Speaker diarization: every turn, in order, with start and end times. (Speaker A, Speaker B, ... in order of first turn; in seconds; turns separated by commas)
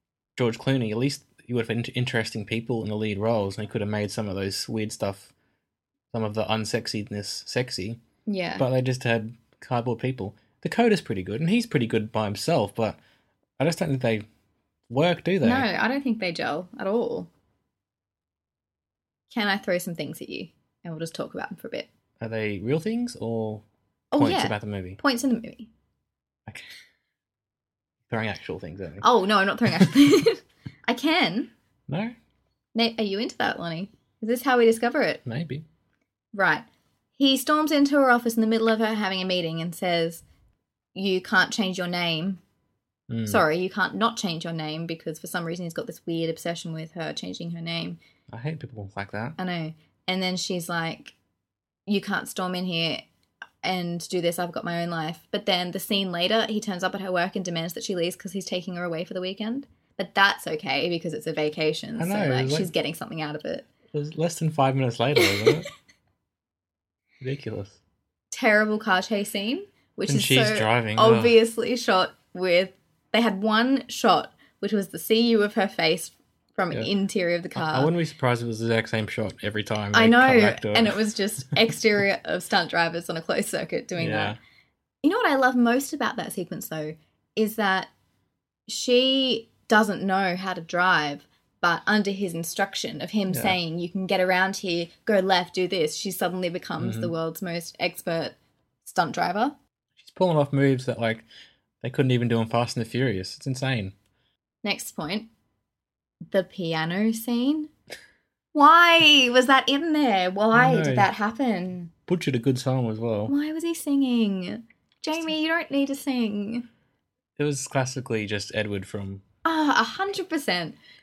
Speaker A: 0.4-5.3, Speaker A: 6.1-8.0, Speaker B: 8.3-8.7, Speaker A: 8.6-13.0, Speaker A: 13.6-14.2, Speaker A: 14.9-15.7, Speaker B: 15.4-17.3, Speaker B: 19.3-21.9, Speaker A: 22.2-23.6, Speaker B: 24.1-25.7, Speaker A: 24.2-25.0, Speaker A: 28.1-29.1, Speaker B: 29.0-31.5, Speaker A: 31.9-32.1, Speaker B: 32.8-35.2, Speaker A: 35.3-35.6, Speaker B: 36.3-36.6, Speaker B: 37.2-40.2, Speaker B: 41.0-42.4, Speaker A: 43.1-43.5, Speaker B: 43.3-48.0, Speaker A: 48.3-49.4, Speaker B: 49.4-51.1, Speaker B: 51.9-53.0, Speaker B: 53.6-63.7, Speaker A: 62.0-62.7, Speaker A: 63.9-65.7, Speaker B: 65.2-65.6, Speaker A: 67.2-67.8, Speaker B: 68.3-77.9, Speaker A: 70.1-71.4, Speaker A: 77.5-81.0, Speaker B: 79.9-84.4, Speaker A: 84.0-84.4, Speaker B: 85.0-87.9, Speaker B: 88.7-99.5, Speaker A: 93.3-93.6, Speaker A: 96.8-97.1, Speaker A: 100.0-101.3, Speaker A: 101.8-103.9, Speaker B: 104.6-105.3, Speaker B: 106.3-107.7, Speaker B: 108.5-111.9, Speaker A: 110.5-111.1, Speaker A: 112.1-113.3, Speaker B: 113.3-116.7, Speaker A: 117.4-119.2, Speaker B: 119.5-120.8